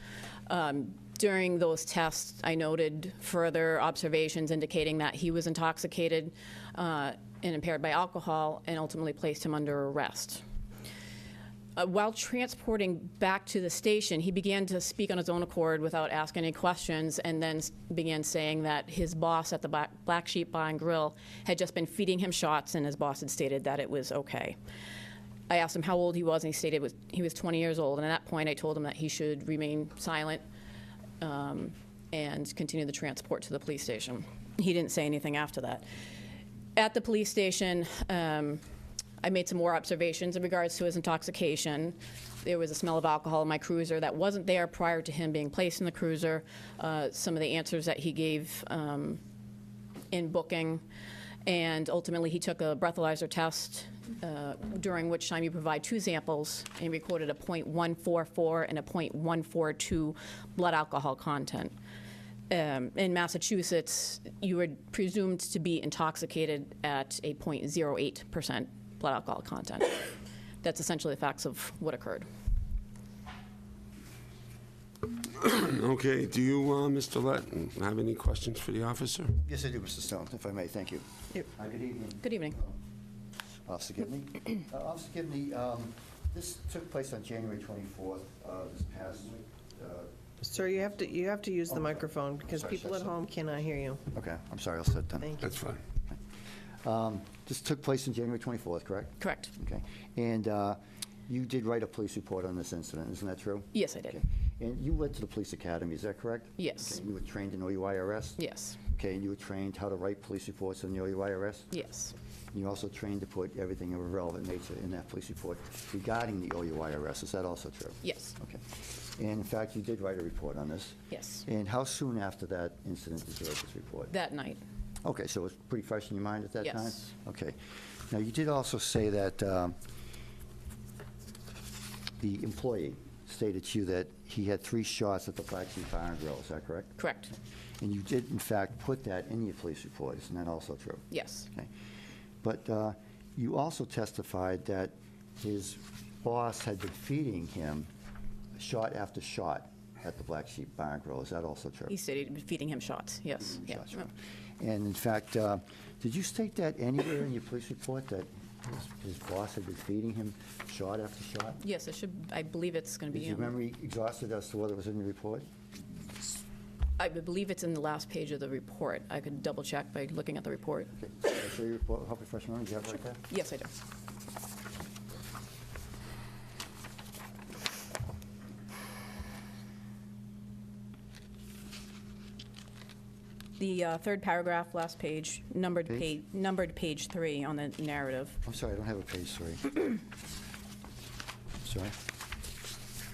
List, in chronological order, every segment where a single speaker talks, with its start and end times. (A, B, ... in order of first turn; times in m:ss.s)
0:00.5-0:10.4 A
0:11.8-0:24.6 A
0:25.5-0:30.4 A
0:31.2-0:35.9 A
0:36.8-0:38.6 A
0:39.2-0:49.2 A
0:50.1-0:50.8 A
0:51.4-1:01.7 A
1:02.5-1:10.1 A
1:10.6-1:12.3 A
1:15.3-1:19.4 B
1:19.4-1:22.8 C
1:22.2-1:22.6 A
1:23.6-1:30.8 C
1:30.4-1:34.0 D
1:31.7-1:32.0 C
1:32.5-1:33.1 C
1:34.1-1:35.5 C
1:35.4-1:35.8 B
1:36.8-1:51.8 C
1:39.2-1:39.5 A
1:43.7-1:44.2 A
1:46.6-1:47.0 A
1:48.4-1:48.8 A
1:51.7-1:52.1 A
1:52.5-2:04.1 C
1:58.0-1:58.3 A
2:01.1-2:01.4 A
2:04.1-2:04.6 A
2:05.0-2:07.6 C
2:06.6-2:07.1 A
2:08.1-2:09.8 C
2:12.2-2:17.0 C
2:17.0-2:17.3 A
2:17.8-2:21.7 C
2:21.1-2:21.5 A
2:22.4-2:27.9 C
2:28.6-2:31.9 C
2:31.9-2:34.1 A
2:33.5-2:41.6 C
2:41.6-2:43.5 A
2:43.1-2:45.4 C
2:47.0-2:50.9 A
2:51.0-2:53.2 C
2:53.3-2:53.7 A
3:03.6-3:08.4 A
3:08.4-3:10.0 C
3:11.6-3:12.0 C